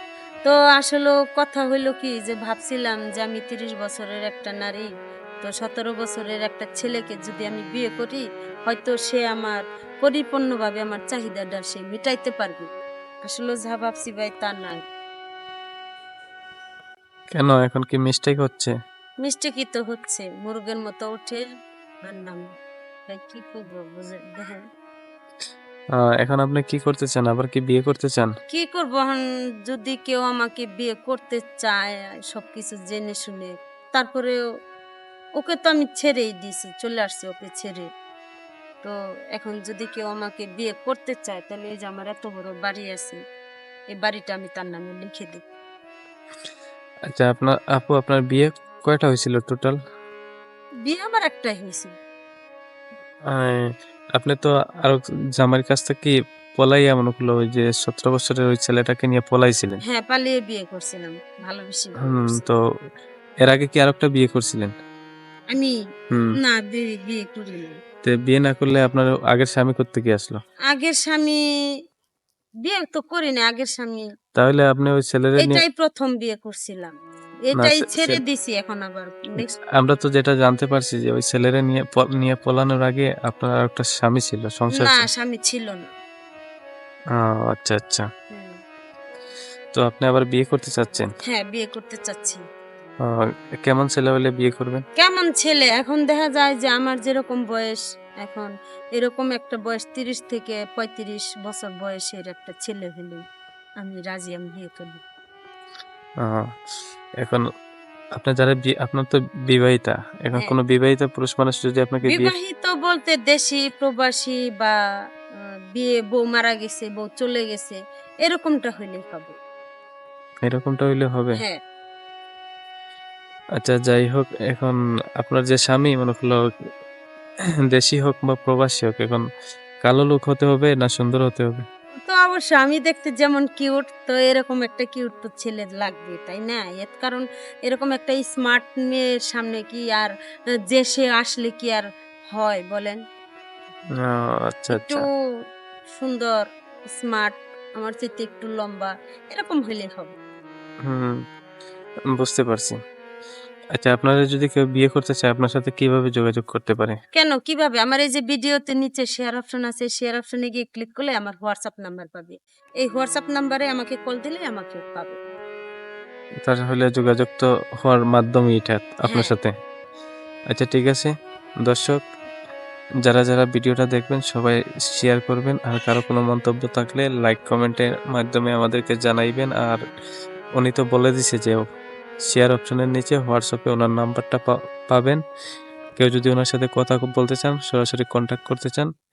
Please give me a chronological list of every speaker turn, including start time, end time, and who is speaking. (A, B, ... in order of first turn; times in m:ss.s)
0:00.4-0:04.9 A
0:05.4-0:12.7 A
0:13.3-0:14.8 A
0:17.4-0:18.7 B
0:19.2-0:21.4 A
0:22.0-0:22.4 A
0:23.1-0:24.6 A
0:26.0-0:28.3 B
0:28.5-0:34.4 A
0:35.4-0:37.9 A
0:38.8-0:43.2 A
0:43.9-0:45.4 A
0:47.1-0:49.8 B
0:50.8-0:51.9 A
0:53.3-0:59.8 B
0:59.9-1:02.4 A
1:02.0-1:02.6 B
1:03.4-1:04.7 B
1:06.4-1:07.8 A
1:08.0-1:10.4 B
1:10.7-1:11.4 A
1:12.6-1:14.1 A
1:14.4-1:15.6 B
1:15.4-1:16.9 A
1:17.5-1:19.5 A
1:17.5-1:18.2 B
1:19.4-1:25.1 B
1:24.7-1:25.8 A
1:27.2-1:28.0 B
1:29.7-1:31.1 B
1:31.3-1:32.4 A
1:33.0-1:34.8 B
1:35.0-1:43.2 A
1:43.8-1:45.0 A
1:46.2-1:46.5 B
1:48.2-1:52.3 B
1:52.1-1:54.7 A
1:55.8-1:59.4 A
2:00.4-2:01.4 B
2:03.6-2:06.5 B
2:07.7-2:09.2 B
2:09.8-2:11.6 B
2:12.0-2:20.1 A
2:20.7-2:23.0 A
2:24.0-2:25.0 B
2:24.7-2:25.1 A
2:26.0-2:30.1 A
2:30.9-2:31.2 B
2:32.1-2:32.8 B
2:33.7-2:37.0 B
2:37.1-2:45.2 A
2:46.4-2:49.5 B
2:49.1-2:49.3 A
2:50.5-2:51.1 B
2:51.6-2:52.0 B
2:53.0-2:59.8 B
3:00.6-3:01.6 B
3:02.3-3:05.2 B
3:06.0-3:08.9 B